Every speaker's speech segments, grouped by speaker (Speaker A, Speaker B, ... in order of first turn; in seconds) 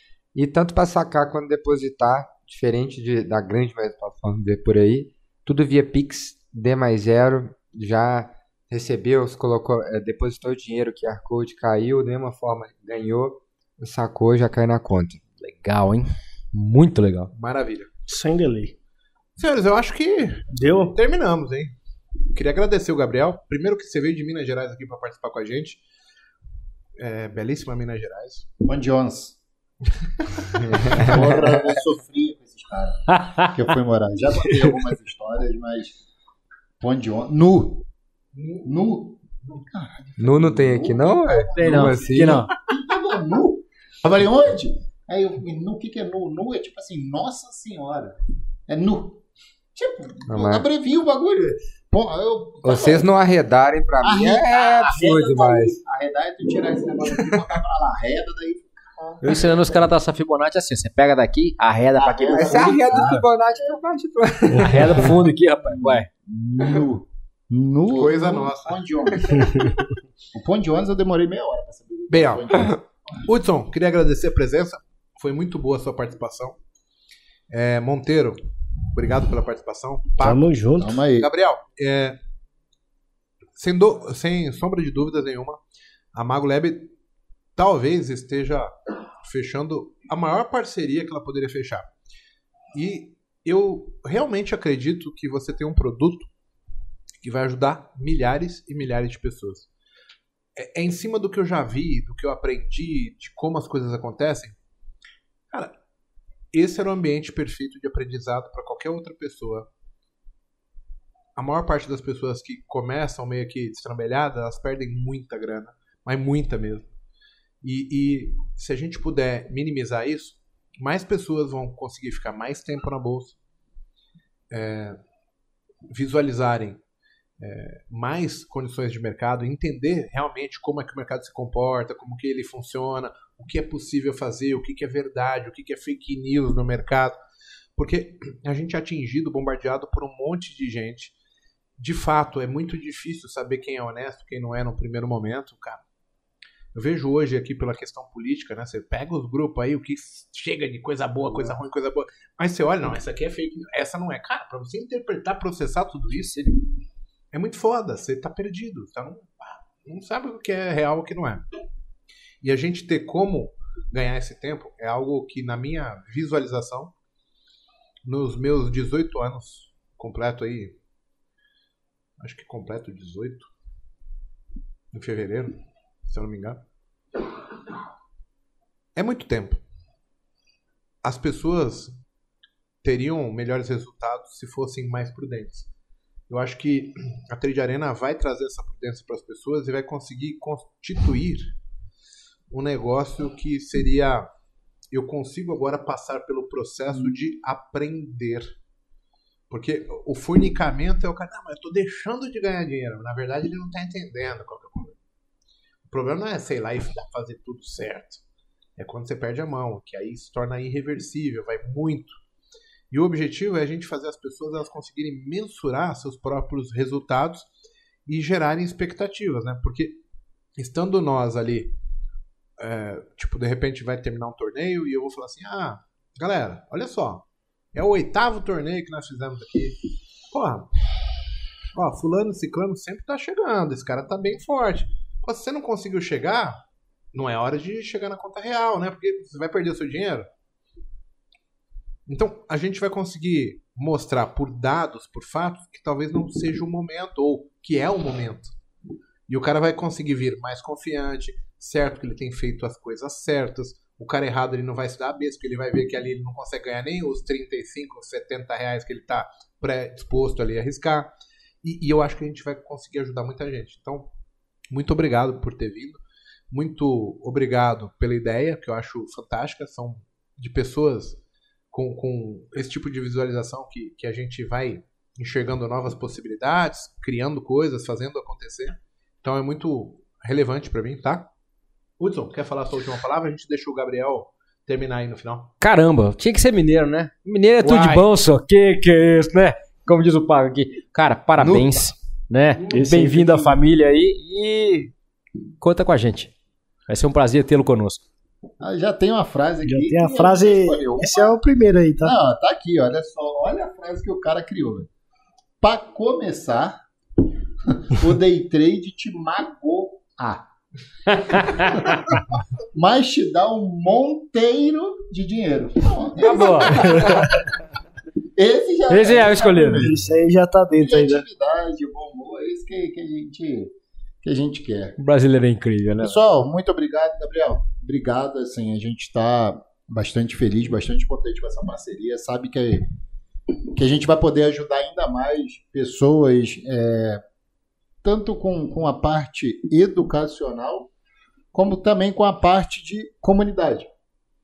Speaker A: 0.3-15.2, 31.0-31.4, 40.2-42.5, 50.3-50.6, 52.6-55.8, 62.3-65.2
Speaker B: 15.4-17.3, 33.1-33.5, 34.4-34.8, 41.5-42.5, 59.2-63.2, 64.6-66.1, 156.1-156.6, 285.6-294.9, 295.6-296.3, 296.9-298.0, 311.4-311.8, 316.2-317.4, 318.9-320.0, 325.0-326.2
Speaker C: 17.3-17.9, 19.4-21.7, 22.3-25.8, 27.0-28.5, 30.5-31.1, 38.3-38.7, 67.9-68.8, 72.1-76.6, 77.5-78.4, 78.9-80.5, 81.1-82.2, 83.6-85.6, 86.1-86.9, 87.5-91.9, 92.7-96.3, 97.2-99.7, 100.5-104.6, 106.5-109.7, 111.3-116.9, 117.6-123.4, 124.5-125.0, 125.9-126.8, 127.4-137.2, 137.8-141.1, 141.8-145.8, 146.7-156.4, 157.3-161.4, 162.4-166.9, 168.0-170.8, 172.2-173.5, 174.9-175.6, 176.1-176.6, 178.9-179.6, 181.0-181.9, 182.8-185.7, 186.3-191.5, 192.5-194.3, 194.9-198.5, 199.5-205.0, 205.9-208.2, 208.8-212.2, 212.9-217.5, 218.1-220.0, 220.6-221.7, 222.6-229.8, 230.3-230.7, 231.7-236.6, 237.1-240.3, 242.1-248.5, 249.3-261.1, 261.6-264.1, 264.7-266.0, 266.5-271.2, 271.7-281.3, 282.0-285.5, 287.6-288.1
Speaker D: 18.1-18.7, 20.5-20.9, 80.2-81.0, 292.7-293.5, 299.6-302.1, 316.5-317.5, 319.8-321.2
Speaker E: 28.6-29.4, 30.6-35.9, 36.8-37.9, 38.6-48.1, 48.7-49.2, 49.7-53.1, 54.0-59.8, 62.0-63.8, 64.8-72.8, 80.8-81.3, 291.4-291.8, 298.6-301.4, 302.0-304.9, 305.6-306.8, 307.6-310.4, 311.2-317.4, 318.4-320.2, 320.8-325.0, 326.0-332.9, 333.7-337.2, 338.0-340.9, 341.5-343.9